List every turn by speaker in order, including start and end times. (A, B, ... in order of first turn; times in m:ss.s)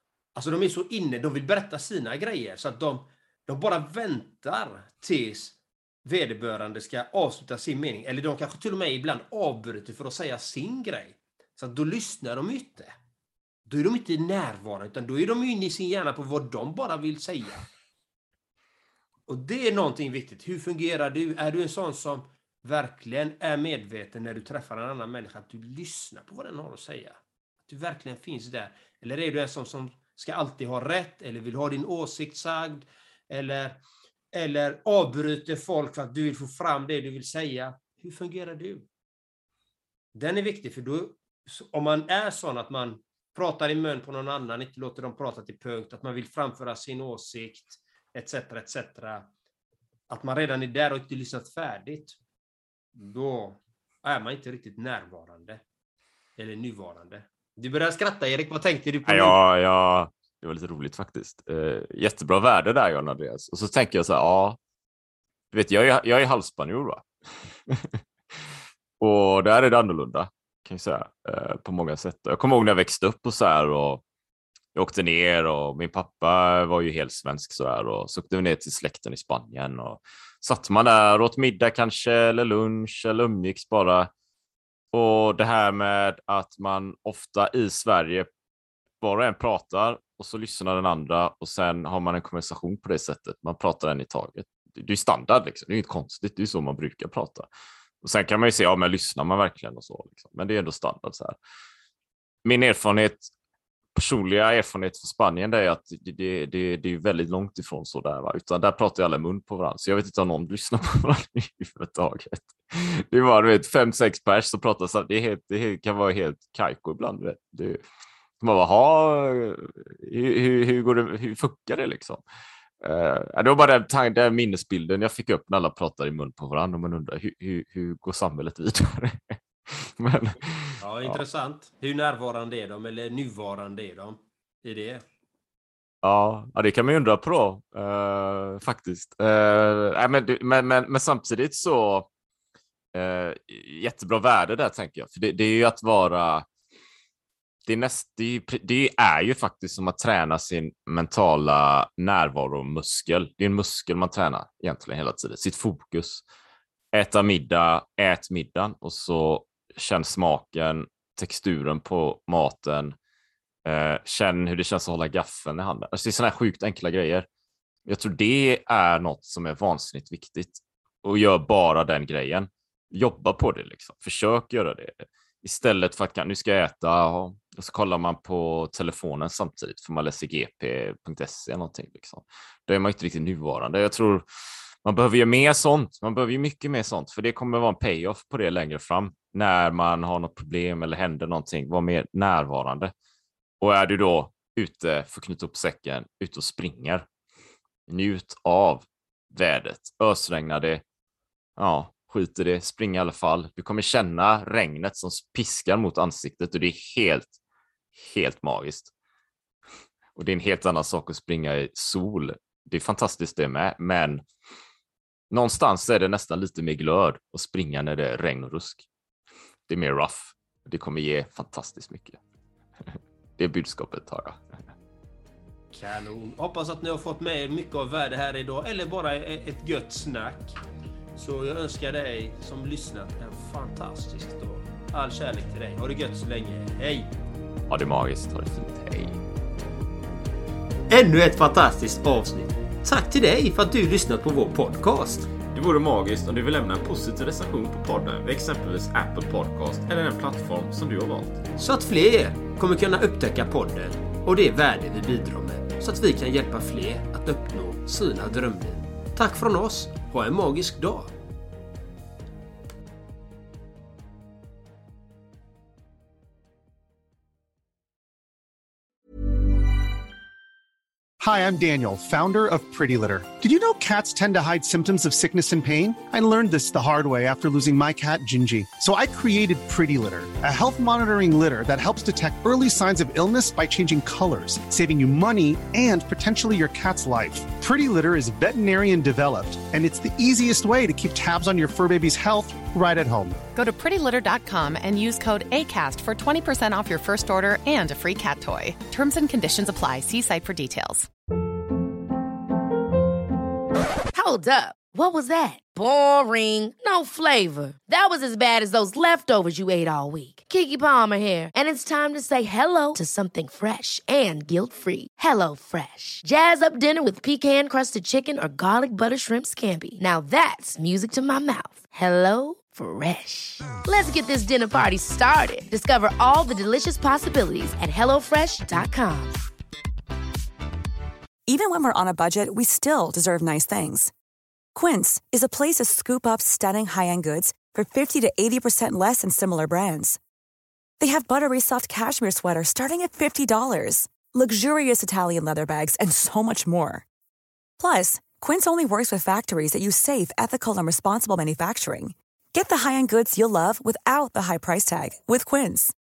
0:00.3-0:12.9 A
0:13.7-0:17.6 A
0:19.3-0:33.8 A
0:34.3-0:38.8 A
0:40.1-0:49.3 A
0:50.1-0:52.2 A
0:53.0-0:55.6 A
0:56.4-0:59.4 A
0:59.0-1:04.6 B
1:05.5-1:07.1 B
1:07.7-1:08.0 B
1:09.0-1:14.0 B
1:14.7-1:24.1 B
1:24.9-1:28.3 B
1:29.0-1:37.5 B
1:38.0-1:41.4 B
1:42.4-1:43.3 B
1:43.9-1:57.8 B
1:58.4-2:02.2 B
2:02.8-2:11.2 B
2:10.8-2:15.0 A
2:16.0-2:22.1 B
2:22.9-2:26.4 B
2:27.7-2:36.2 B
2:36.9-2:42.9 B
2:43.6-2:47.2 B
2:47.8-3:04.2 B
3:04.8-3:12.9 B
3:13.6-3:17.0 B
3:17.9-3:20.8 B
3:21.6-3:27.4 B
3:27.9-3:28.9 B
3:30.2-3:34.2 B
3:35.3-3:38.8 B
3:39.7-3:42.2 B
3:43.4-3:44.4 B
3:45.7-3:50.6 A
3:51.2-3:57.1 A
3:57.7-3:59.2 B
4:00.9-4:05.3 A
4:05.5-4:11.4 B
4:11.6-4:21.1 A
4:31.2-4:53.4 C
4:53.6-5:01.1 D
5:04.1-5:29.4 E
5:31.5-5:34.1 F
5:34.7-5:40.2 F
5:41.0-5:47.0 F
5:47.8-5:55.9 F